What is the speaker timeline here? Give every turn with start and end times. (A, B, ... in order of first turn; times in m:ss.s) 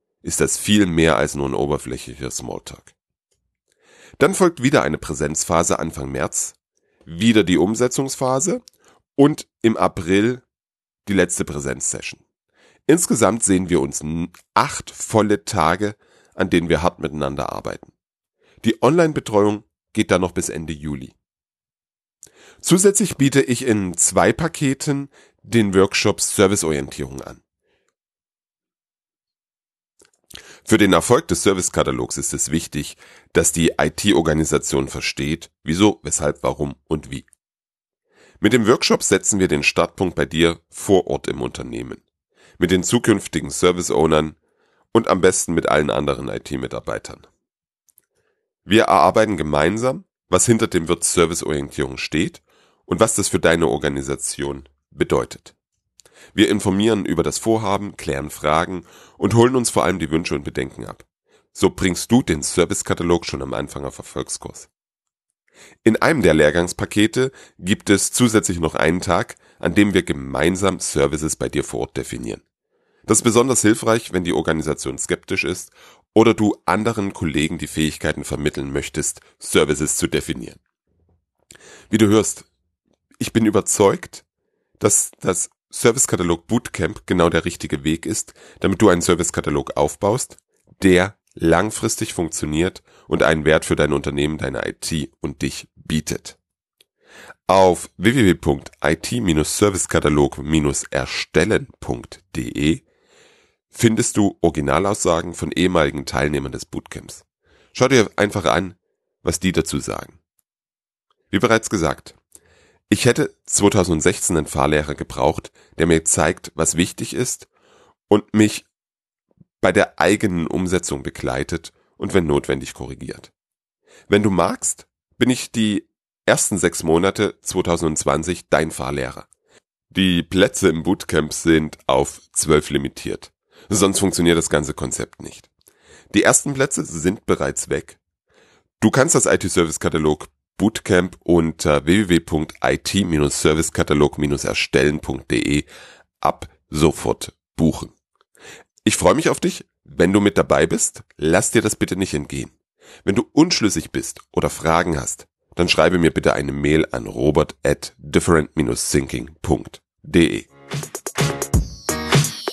0:00.2-0:02.9 A
0:04.2-0:08.6 A
0:09.2-0:10.4 A
0:11.0-0:12.2 A
0:12.9-0:17.9 A
0:18.6-0:21.1 A
0:22.6-0:27.4 A
0:30.6-0:37.3 A
0:38.4-0:42.0 A
0:42.6-0:44.4 A
0:44.9-0:47.3 A
0:48.6-0:55.5 A
0:56.3-1:04.7 A
1:05.8-1:12.4 A
1:13.1-1:20.6 A
1:21.9-1:22.5 A
1:23.2-1:24.2 A
1:24.8-1:36.4 A
1:37.5-1:42.8 A
1:43.7-1:47.2 A
1:47.7-1:50.2 A
1:51.3-1:52.2 A
1:52.9-1:57.5 A
1:58.1-1:58.7 A
1:59.6-2:03.3 A
2:04.1-2:09.3 A
2:09.9-2:15.5 A
2:16.1-2:18.0 A
2:18.8-2:25.7 A
2:26.2-2:27.9 A
2:28.8-2:32.5 A
2:33.0-2:40.5 A